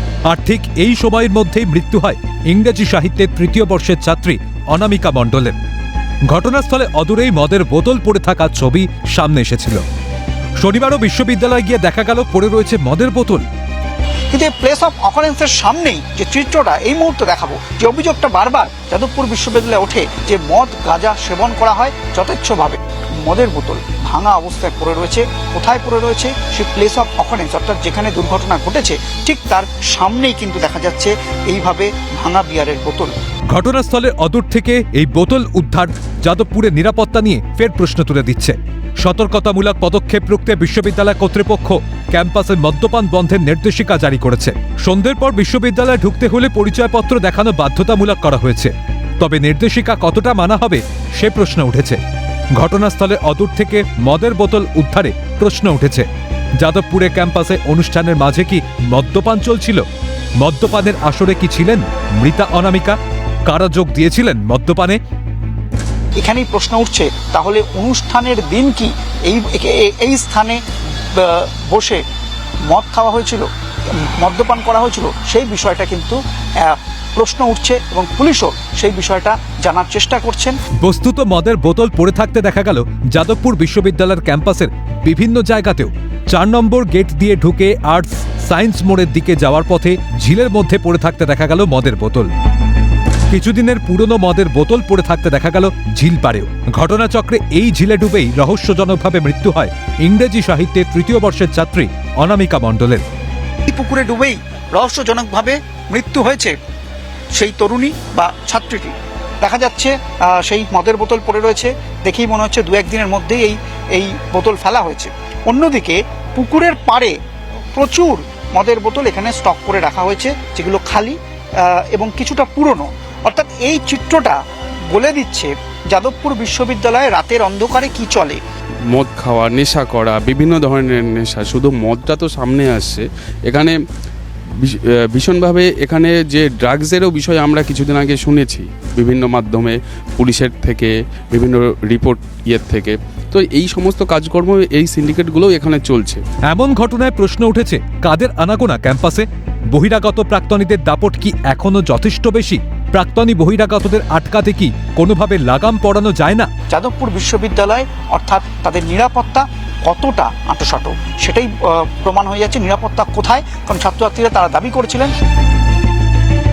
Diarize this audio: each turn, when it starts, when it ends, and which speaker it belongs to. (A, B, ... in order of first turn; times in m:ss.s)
0:00.2-0:05.6 A
0:06.3-0:09.8 A
0:10.6-0:13.4 A
0:14.3-0:33.1 B
0:33.5-0:52.0 A
0:52.6-0:59.8 A
1:00.4-1:05.0 A
1:06.2-1:10.6 B
1:11.1-1:12.0 B
1:12.7-1:20.6 B
1:20.8-1:32.3 A
1:33.3-1:43.0 A
1:43.7-1:46.5 B
1:47.3-1:57.2 B
1:57.7-2:04.4 B
2:04.9-2:08.4 B
2:08.9-2:13.8 C
2:14.6-2:26.2 C
2:26.4-2:36.5 A
2:36.7-2:45.1 B